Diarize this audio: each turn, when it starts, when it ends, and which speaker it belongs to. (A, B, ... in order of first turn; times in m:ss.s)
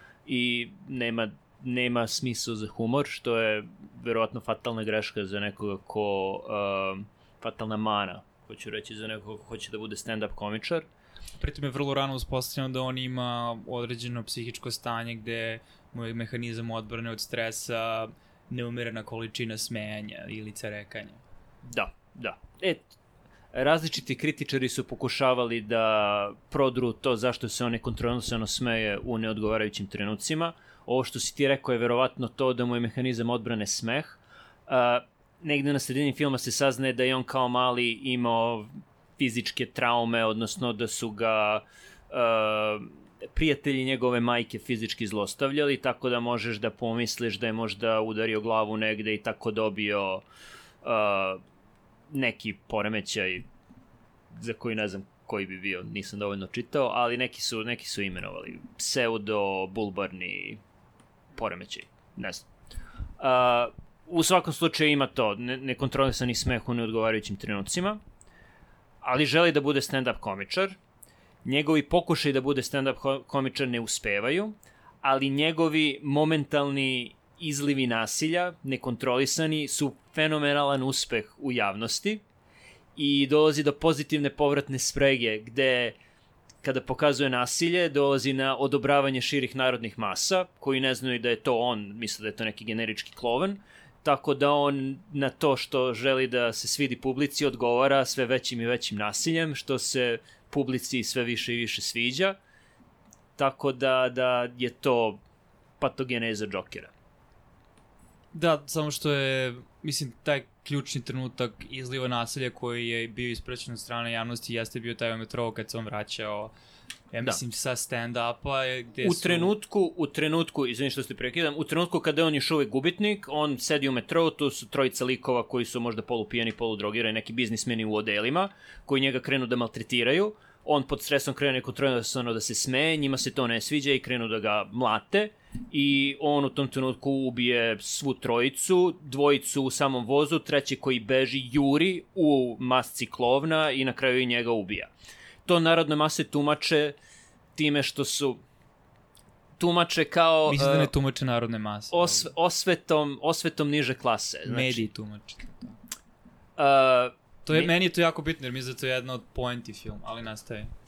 0:00.3-0:10.9 A
0:11.4-0:21.2 B
0:21.6-0:22.9 A
0:23.5-0:50.2 A
0:50.8-0:51.4 A
0:52.1-0:53.5 A
0:54.3-1:00.6 A
1:01.4-1:02.5 A
1:03.2-1:08.0 A
1:09.0-1:10.8 A
1:11.4-1:22.2 A
1:23.0-1:26.0 A
1:26.6-1:42.4 A
1:43.4-1:45.2 A
1:45.8-1:46.9 A
1:48.3-1:56.5 B
1:57.1-1:59.5 B
1:59.0-2:24.9 A
2:25.4-2:27.0 A
2:27.6-2:28.4 A
2:29.6-2:30.9 A
2:30.5-2:32.3 B
2:31.9-2:34.8 A
2:34.5-2:35.8 B
2:36.6-2:37.7 A
2:37.4-2:40.7 B